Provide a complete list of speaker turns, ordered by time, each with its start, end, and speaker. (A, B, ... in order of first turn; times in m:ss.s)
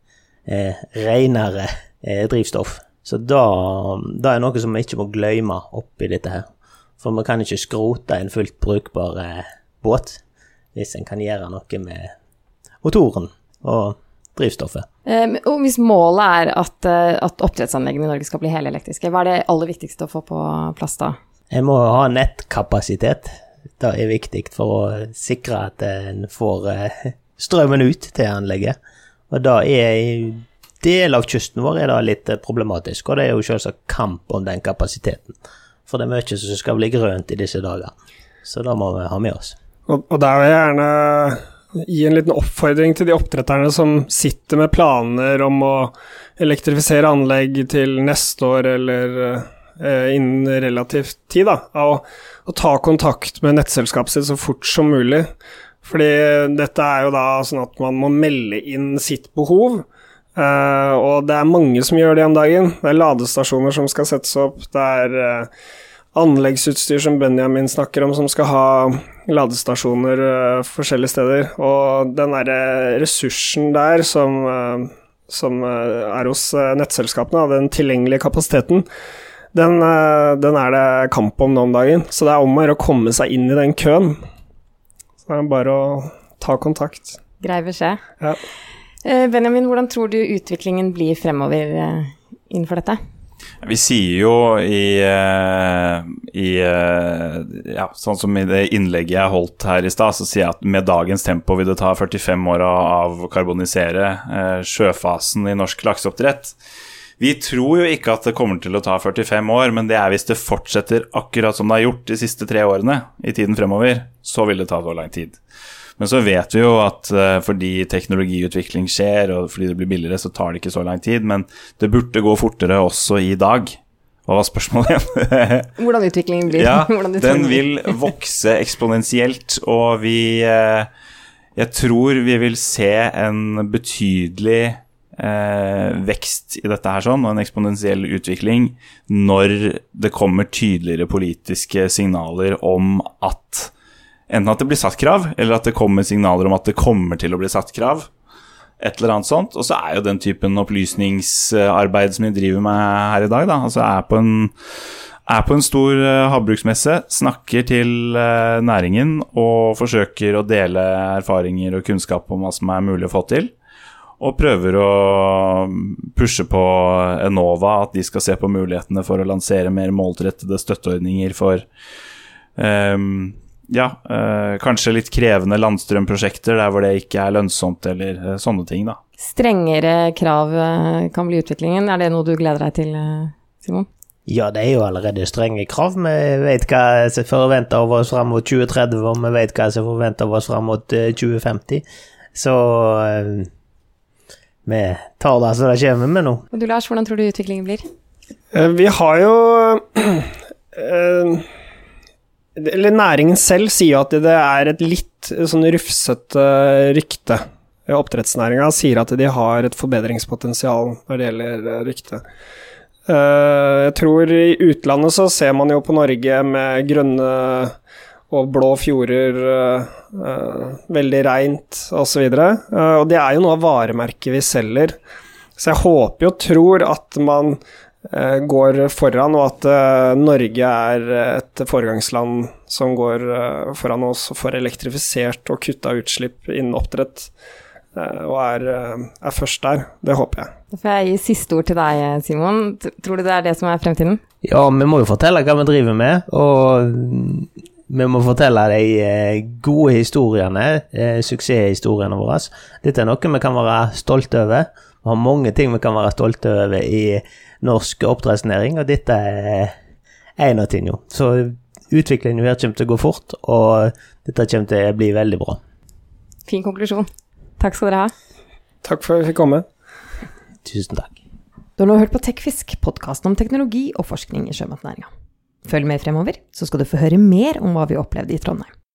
0:00.4-0:06.4 A
0:07.0-0:10.2 A
0:10.7-0:12.1 A
0:12.8-0:14.8 A
0:15.0-0:21.2 B
0:21.5-0:28.8 A
0:29.3-0:35.3 A
0:35.9-0:37.9 A
0:38.4-0:39.6 A
0:39.9-0:55.3 C
0:55.8-0:59.8 C
1:00.4-1:05.5 C
1:06.1-1:18.8 C
1:19.5-1:24.2 C
1:25.3-1:27.2 C
1:27.4-1:28.0 B
1:29.0-1:33.0 B
1:33.6-1:46.5 D
1:47.2-1:55.4 D
1:56.0-2:05.7 D
2:05.8-2:08.0 B
2:06.5-2:10.9 D
2:11.6-2:23.7 D
2:24.3-2:28.1 D
2:28.8-2:34.5 D
2:35.3-2:43.5 D
2:44.2-2:51.6 D
2:52.6-2:59.0 D
2:59.2-3:03.9 B
3:04.3-3:11.8 A
3:12.3-3:13.5 A
3:14.6-3:16.4 A
3:16.5-3:17.8 B
3:18.5-3:21.4 C
3:22.6-3:32.2 C
3:33.1-3:37.7 C
3:38.3-3:45.0 C
3:45.6-3:57.3 C
3:57.9-4:00.5 C
4:00.7-4:04.2 B
4:04.4-4:19.7 A
4:20.4-4:25.6 A
4:26.5-4:28.1 B
4:28.8-4:29.6 C
4:30.6-4:31.2 A
4:31.8-4:35.1 B
4:35.6-4:38.7 B